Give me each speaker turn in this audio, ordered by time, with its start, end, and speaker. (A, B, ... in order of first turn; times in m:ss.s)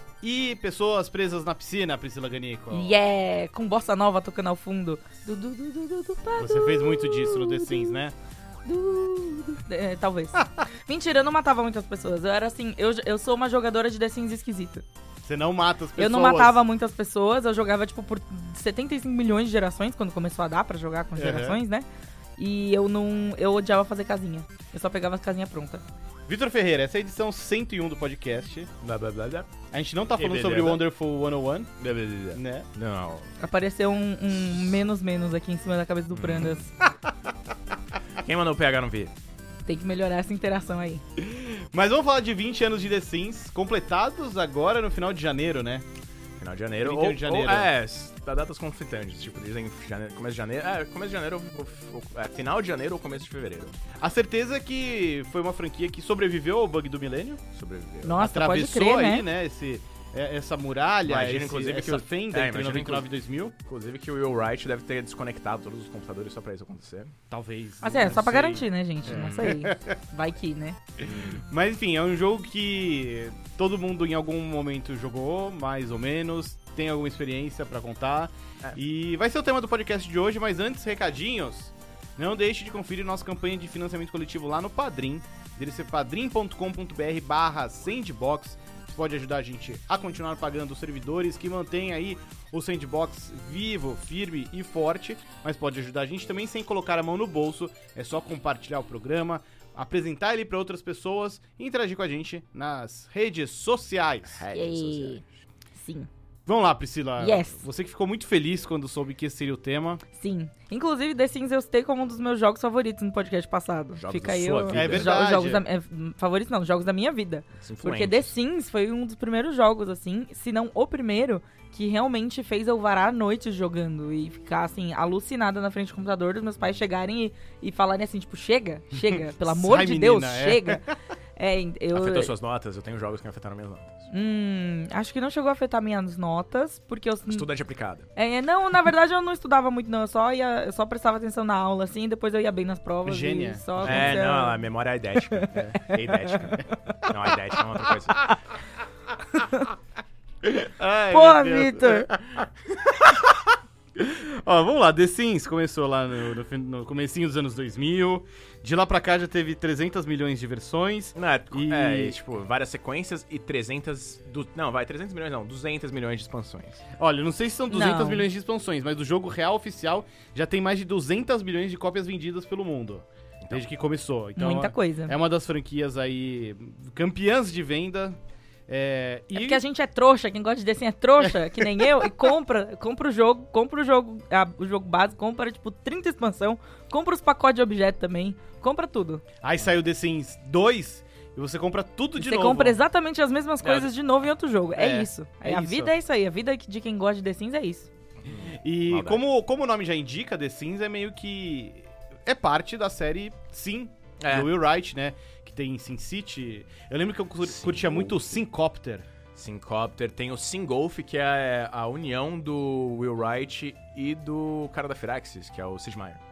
0:00.2-0:02.9 A
0:02.7-0:08.0 B
0:06.4-0:08.1 A
0:08.6-0:14.8 B
0:15.2-0:16.6 A
0:16.0-0:21.8 B
0:21.2-0:21.6 A
0:22.4-0:25.8 B
0:26.3-0:28.7 A
0:28.8-0:29.5 C
0:29.7-0:31.7 A
0:30.2-0:30.8 C
0:31.8-0:33.3 C
0:32.3-0:32.7 A
0:33.4-0:36.7 B
0:36.1-0:36.6 C
0:38.2-0:39.1 C
0:39.6-0:41.0 B
0:41.2-0:45.8 A
0:46.4-0:53.7 C
0:46.8-0:47.7 A
0:54.0-0:57.4 A
0:57.5-0:58.2 C
0:58.0-0:59.2 B
0:58.2-1:03.5 A
1:01.0-1:03.1 C
1:03.6-1:07.1 C
1:07.3-1:10.0 A
1:07.8-1:10.8 B
1:09.1-1:09.6 C
1:11.0-1:44.4 A
1:11.0-1:11.4 C
1:44.3-1:45.3 C
1:44.5-1:45.2 B
1:45.7-1:46.1 B
1:46.4-1:50.0 A
1:47.2-1:47.6 B
1:50.1-2:10.8 B
1:54.0-1:55.1 C
1:54.7-1:55.6 A
1:57.6-1:58.3 C
2:08.9-2:10.9 A
2:11.4-2:12.3 B
2:11.9-2:14.0 C
2:14.1-2:17.5 B
2:17.3-2:18.1 C
2:18.2-2:24.6 B
2:23.0-2:24.2 A
2:23.8-2:28.4 C
2:25.2-2:27.0 B
2:25.5-2:25.8 A
2:29.3-2:29.7 B
2:30.4-2:42.2 A
2:31.1-2:32.1 B
2:41.2-2:46.8 C
2:47.0-2:59.6 A
2:47.7-2:48.2 B
2:54.4-2:55.1 B
2:59.3-3:09.2 B
3:01.2-3:01.9 A
3:09.4-3:12.8 A
3:12.2-3:17.9 B
3:13.6-3:13.9 C
3:14.8-3:15.9 A
3:18.2-3:19.2 C
3:18.5-3:29.0 A
3:24.2-3:24.5 C
3:27.4-3:28.3 C
3:29.3-3:36.2 C